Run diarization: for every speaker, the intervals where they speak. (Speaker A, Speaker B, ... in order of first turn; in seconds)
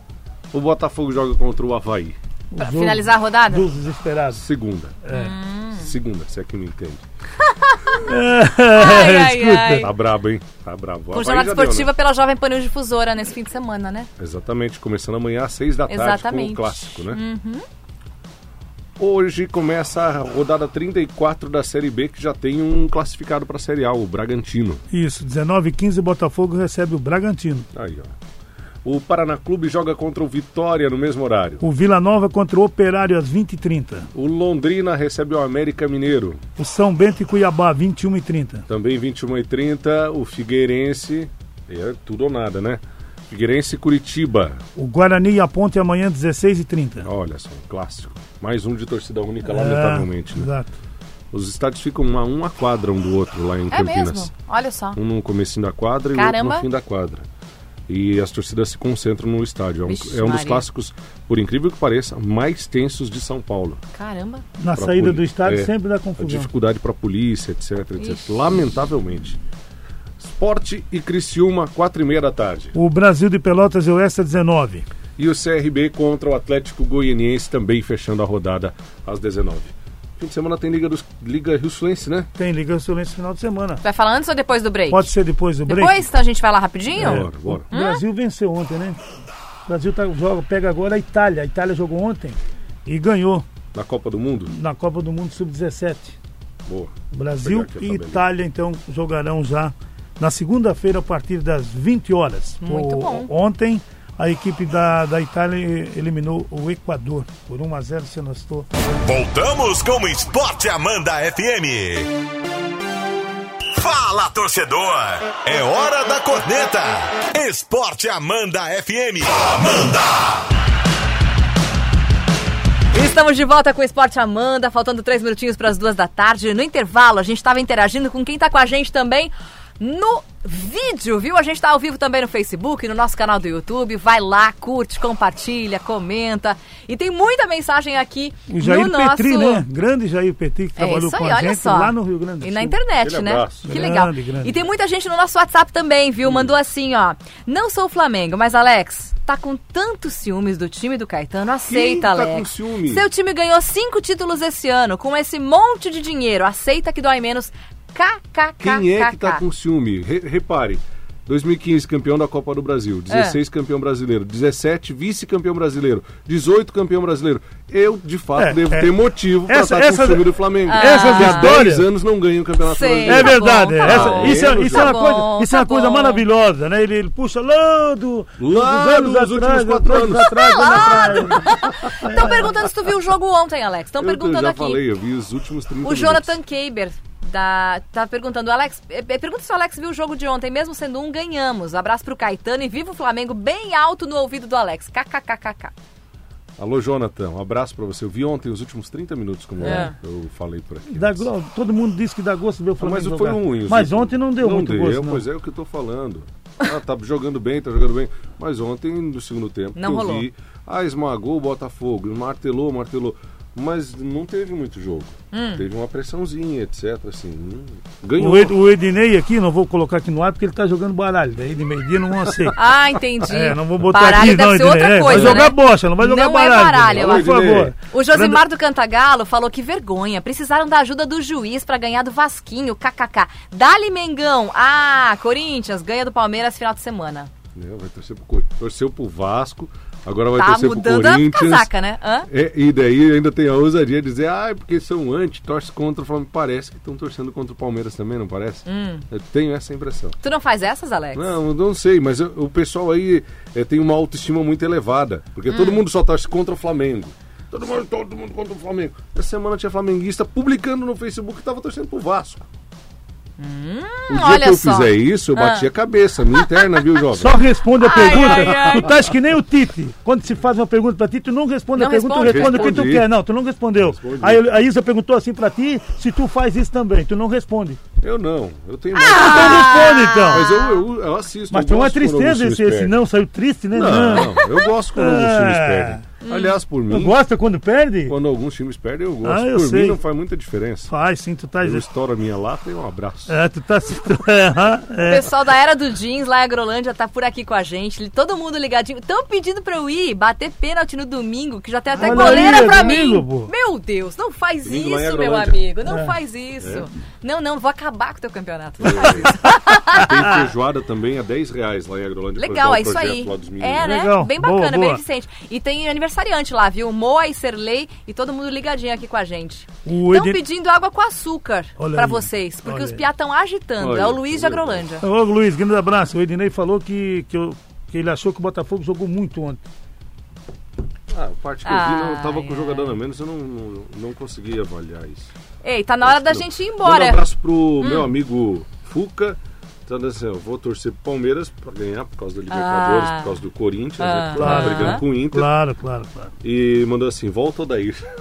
Speaker A: 0.5-2.2, 4.3-5.0, 5.8-7.0, 9.7-11.9, 14.2-17.2, 19.0-24.8, 27.7-28.1, 28.8-31.6, 34.1-36.4, 38.7-44.6, 47.0-50.5, 51.3-54.3, 54.9-57.2, 57.9-63.8, 64.7-69.4, 70.2-72.8, 75.2-82.3, 87.0-87.7, 93.7-94.5, 96.7-98.2, 143.0-143.8, 146.3-146.5, 151.7-153.1, 158.6-175.0, 178.4-181.6, 184.0-186.4, 196.6-201.3, 202.8-218.6, 225.1-225.5, 226.9-227.7, 237.5-241.7, 242.3-250.2, 251.1-262.4, 264.1-267.4, 268.1-269.1, 272.2-273.1, 273.8-274.4, 278.0-283.0, 283.7-287.2, 288.0-290.9, 291.6-293.4, 302.1-302.8, 304.6-305.6, 306.6-306.9, 308.8-309.4, 309.9-313.9, 323.8-324.9, 331.1-335.3, 336.0-345.5, 346.4-348.1
Speaker B: 2.5-4.4, 5.0-5.4, 8.1-9.8, 24.9-27.7, 31.6-34.1, 36.6-38.6, 44.8-47.1, 49.4-50.7, 64.6-66.5, 72.7-74.8, 82.3-83.8, 84.9-86.0, 87.0-89.0, 89.7-93.5, 94.5-96.2, 97.1-108.7, 138.5-142.8, 143.6-144.6, 168.3-168.9, 169.4-171.9, 173.0-181.4, 182.0-182.7, 199.6-199.9, 200.9-205.2, 218.2-222.6, 223.2-228.4, 267.1-277.8, 279.1-280.5, 281.5-284.4, 284.9-286.0, 286.9-288.2, 289.2-290.0, 290.9-291.9, 293.3-295.3, 301.9-303.5, 305.9-306.1, 313.8-315.0, 319.8-320.4, 321.8-323.0, 325.0-329.6, 344.3-346.3
Speaker C: 2.6-3.6, 5.1-5.9, 7.6-8.0, 8.8-9.9, 11.1-14.1, 15.9-17.6, 53.7-55.0, 56.1-56.6, 59.9-60.6, 63.9-64.4, 68.0-68.5, 83.8-85.1, 85.7-88.0, 102.6-103.3, 122.9-139.6, 140.8-159.4, 163.1-163.4, 170.7-171.6, 172.6-176.2, 180.3-184.8, 185.8-195.7, 199.6-199.9, 209.7-210.3, 215.3-215.6, 222.5-227.4, 227.9-237.3, 240.3-242.3, 248.7-249.0, 250.2-251.3, 255.5-255.8, 263.4-265.7, 266.3-266.8, 267.8-268.9, 271.7-272.8, 278.9-280.8, 286.2-286.6, 295.0-310.4, 312.4-325.0, 331.6-332.9, 335.6-337.2, 337.8-338.1, 342.5-343.3, 344.0-345.0
Speaker D: 109.0-112.1, 113.7-120.2